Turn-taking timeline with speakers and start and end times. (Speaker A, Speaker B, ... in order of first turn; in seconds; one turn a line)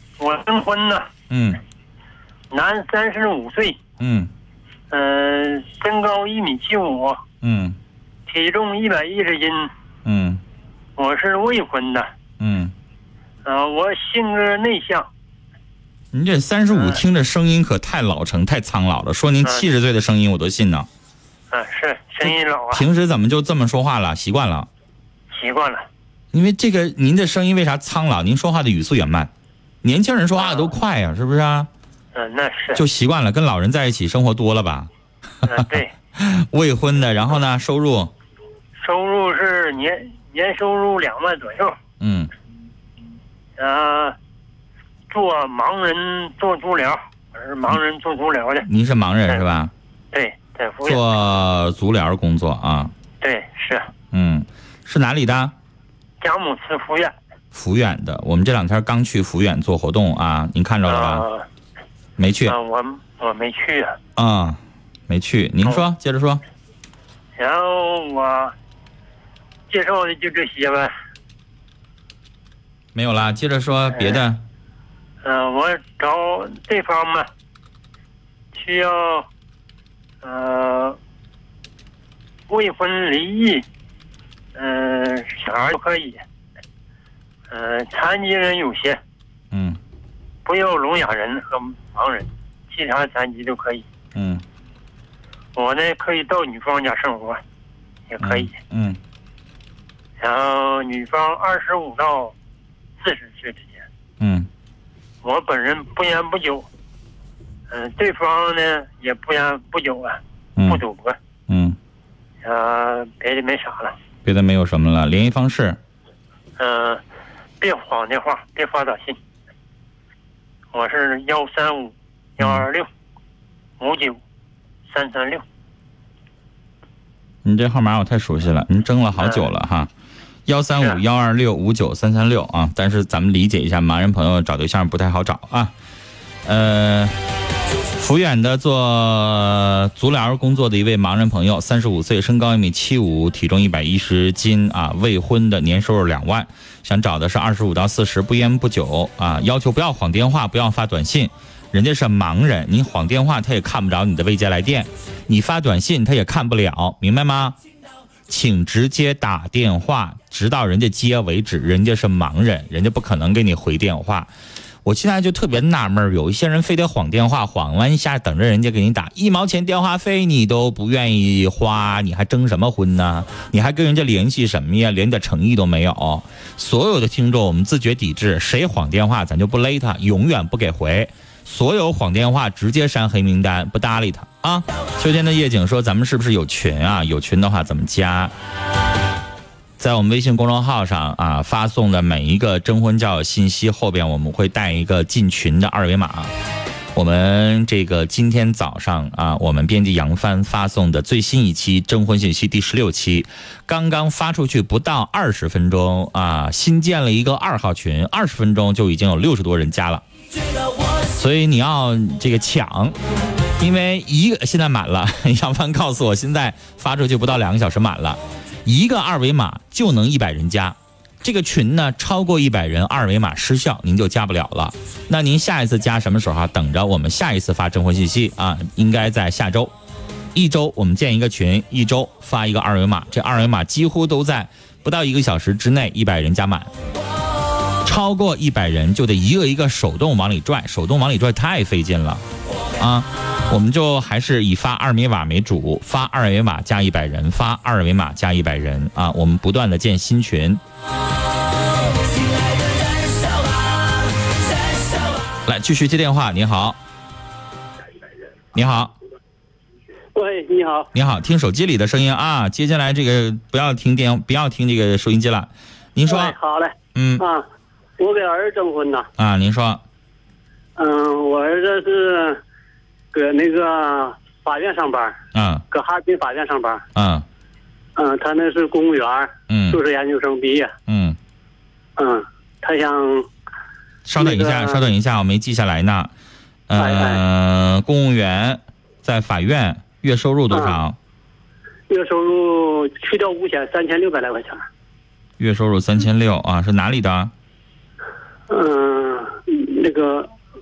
Speaker A: 0.2-1.1
Speaker B: 1.3-1.6
Speaker A: 2.5-3.8
Speaker B: 4.0-4.3
Speaker A: 4.9-7.2
Speaker B: 7.4-7.8
Speaker A: 8.3-9.7
Speaker B: 10.1-10.4
Speaker A: 11.0-12.1
Speaker B: 12.4-12.7
Speaker A: 13.4-15.1
Speaker B: 16.1-20.9
Speaker A: 16.7-17.0
Speaker A: 21.5-22.9
Speaker B: 22.2-24.7
Speaker A: 25.3-25.9
Speaker B: 26.3-29.3
Speaker B: 29.8-31.7
Speaker A: 30.4-30.7
Speaker A: 32.1-32.8
Speaker B: 32.8-34.9
Speaker B: 35.4-38.1
Speaker A: 35.5-35.9
Speaker A: 38.8-41.8
Speaker B: 42.0-42.3
Speaker A: 43.6-44.2
Speaker A: 45.1-48.7
Speaker B: 48.7-49.7
Speaker A: 50.1-51.1
Speaker B: 50.9-52.9
Speaker A: 53.2-53.9
Speaker B: 54.1-55.5
Speaker A: 56.2-57.1
Speaker B: 57.5-61.2
Speaker A: 60.9-61.5
Speaker B: 62.2-62.6
Speaker A: 62.5-64.0
Speaker B: 64.2-66.4
Speaker A: 67.4-68.5
Speaker A: 69.7-70.9
Speaker B: 73.0-74.4
Speaker A: 75.2-77.3
Speaker A: 78.5-79.3
Speaker A: 80.2-81.0
Speaker A: 82.5-83.6
Speaker A: 84.5-86.2
Speaker A: 87.5-89.0
Speaker B: 89.5-89.8
Speaker A: 90.5-93.8
Speaker B: 94.2-94.4
Speaker A: 95.6-97.4
Speaker A: 98.1-98.5
Speaker B: 98.2-99.0
Speaker A: 100.2-102.3
Speaker A: 103.0-103.8
Speaker B: 104.2-104.5
Speaker A: 105.2-106.7
Speaker A: 107.7-111.2
Speaker B: 110.6-110.8
Speaker B: 111.5-111.8
Speaker A: 112.4-114.0
Speaker B: 114.2-115.8
Speaker A: 116.6-117.0
Speaker A: 117.6-119.2
Speaker A: 120.7-122.9
Speaker B: 122.4-122.7
Speaker A: 123.8-124.2
Speaker A: 124.9-125.4
Speaker B: 127.5-129.9
Speaker A: 129.2-129.5
Speaker B: 130.5-135.7
Speaker B: 136.4-137.2
Speaker B: 138.0-157.6
Speaker B: 158.3-164.3
Speaker B: 164.8-188.3
Speaker B: 189.8-196.3
Speaker B: 196.9-210.0
Speaker B: 211.1-212.9
Speaker B: 213.6-229.7
Speaker B: 230.3-236.7
Speaker B: 237.8-242.2
Speaker B: 242.8-250.6
Speaker B: 255.5-256.8
Speaker B: 258.5-258.9
Speaker C: 260.1-260.9
Speaker B: 260.9-266.4
Speaker C: 266.1-267.4
Speaker B: 266.9-267.2
Speaker C: 268.0-269.1
Speaker B: 269.2-269.8
Speaker C: 270.8-272.4
Speaker C: 273.1-275.2
Speaker B: 275.3-275.6
Speaker C: 275.7-276.8
Speaker B: 276.9-277.3
Speaker C: 278.0-280.7
Speaker B: 279.5-279.8
Speaker B: 280.9-281.2
Speaker C: 282.0-283.3
Speaker B: 284.1-286.1
Speaker C: 284.2-284.9
Speaker B: 286.7-291.0
Speaker C: 286.8-287.2
Speaker C: 290.5-290.8
Speaker C: 291.9-294.7
Speaker B: 295.4-297.3
Speaker C: 298.5-300.3